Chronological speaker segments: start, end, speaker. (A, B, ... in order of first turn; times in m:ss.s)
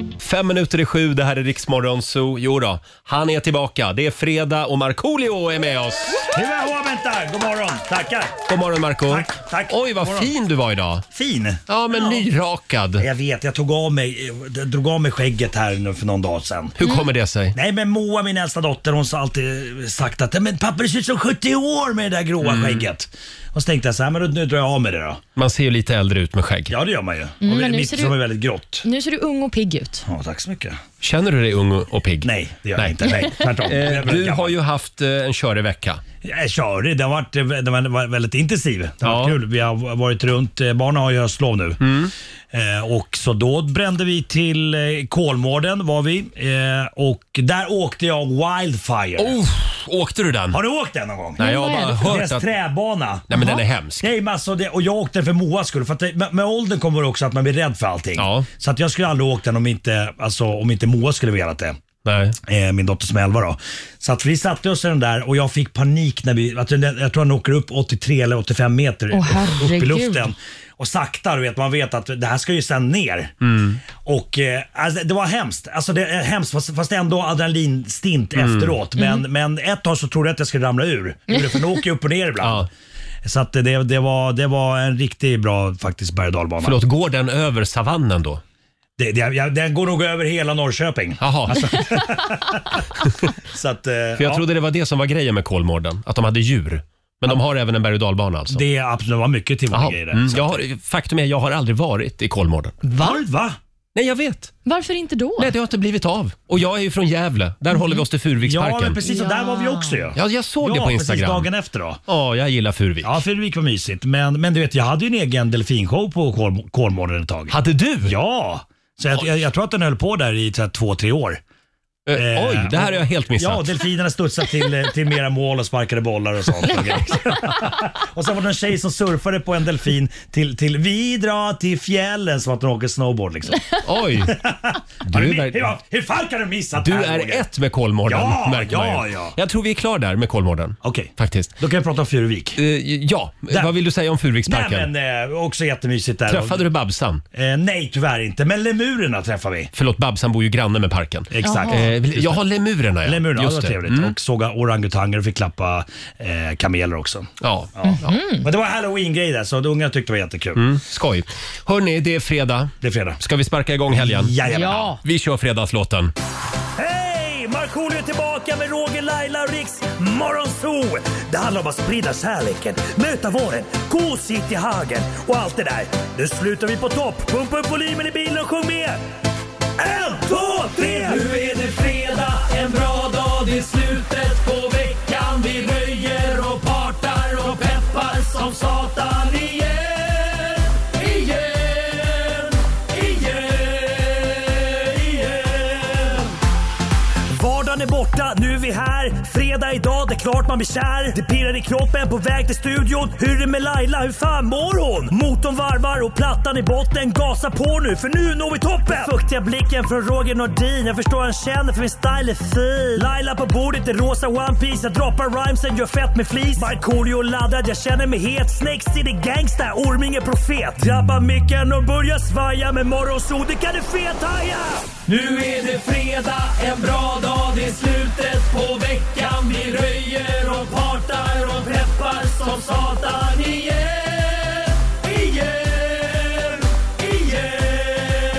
0:00.2-0:06.3 A
0:06.3-0:08.4 B
0:08.5-0:11.0 A
0:09.1-0:10.3 B
0:11.1-0:12.2 B
0:11.7-0:13.0 A
0:13.0-0:16.8 B
0:16.8-0:17.6 A
0:17.5-0:25.2 B
0:22.4-0:22.8 A
0:25.4-0:26.8 A
0:26.7-0:28.8 B
0:27.4-0:28.2 C
0:28.8-0:30.1 C
0:30.1-0:30.8 B
0:31.0-0:36.0 A
0:32.2-0:34.6 B
0:36.2-0:41.8 B
0:39.0-0:39.4 A
0:41.8-0:42.1 A
0:42.5-0:49.4 B
0:49.2-0:50.6 A
0:50.5-0:53.3 B
0:51.4-0:52.5 A
0:51.4-0:52.2 C
0:53.3-0:54.1 A
0:53.3-0:53.6 C
0:54.0-1:01.8 B
0:58.2-0:58.5 A
1:02.0-1:02.4 A
1:02.4-1:13.4 B
1:09.1-1:10.3 C
1:13.4-1:13.8 A
1:14.0-1:22.7 B
1:18.4-1:18.8 A
1:19.0-1:19.2 C
1:21.3-1:21.8 C
1:22.4-1:22.7 A
1:23.2-1:26.8 B
1:26.6-1:28.4 A
1:29.0-1:32.8 B
1:31.2-1:32.1 A
1:33.5-1:34.5 B
1:34.2-1:38.6 A
1:38.5-1:40.6 B
1:39.7-1:42.8 A
1:42.9-1:43.2 C
1:42.9-1:43.6 B
1:44.0-1:44.6 A
1:44.6-1:45.5 C
1:45.4-1:49.0 A
1:47.8-1:48.0 C
1:48.4-1:52.0 B
1:49.0-1:50.1 C
1:50.2-1:51.5 A
1:52.1-1:53.1 A
1:53.0-2:01.4 B
1:57.5-1:58.2 A
2:02.1-2:03.8 A
2:02.1-2:17.5 B
2:13.8-2:14.4 A
2:15.1-2:15.7 A
2:16.8-2:21.5 A
2:18.0-2:19.4 B
2:20.8-2:22.6 B
2:22.6-2:24.9 A
2:23.5-2:23.7 B
2:24.5-2:26.7 B
2:26.3-2:27.2 A
2:27.3-2:29.7 B
2:29.7-2:34.1 A
2:31.3-2:32.4 B
2:31.4-2:31.9 C
2:33.0-2:40.7 B
2:37.4-2:38.2 A
2:37.8-2:38.5 C
2:40.6-2:46.1 A
2:42.8-2:43.2 B
2:43.9-2:44.9 B
2:44.5-2:45.0 C
2:46.8-2:59.0 B
2:59.8-3:01.4 B
3:01.9-3:02.6 B
3:07.2-3:09.8 B
3:11.0-3:12.4 B
3:12.9-3:13.5 B
3:14.7-3:16.2 B
3:17.3-3:56.4 B
3:57.0-3:58.1 B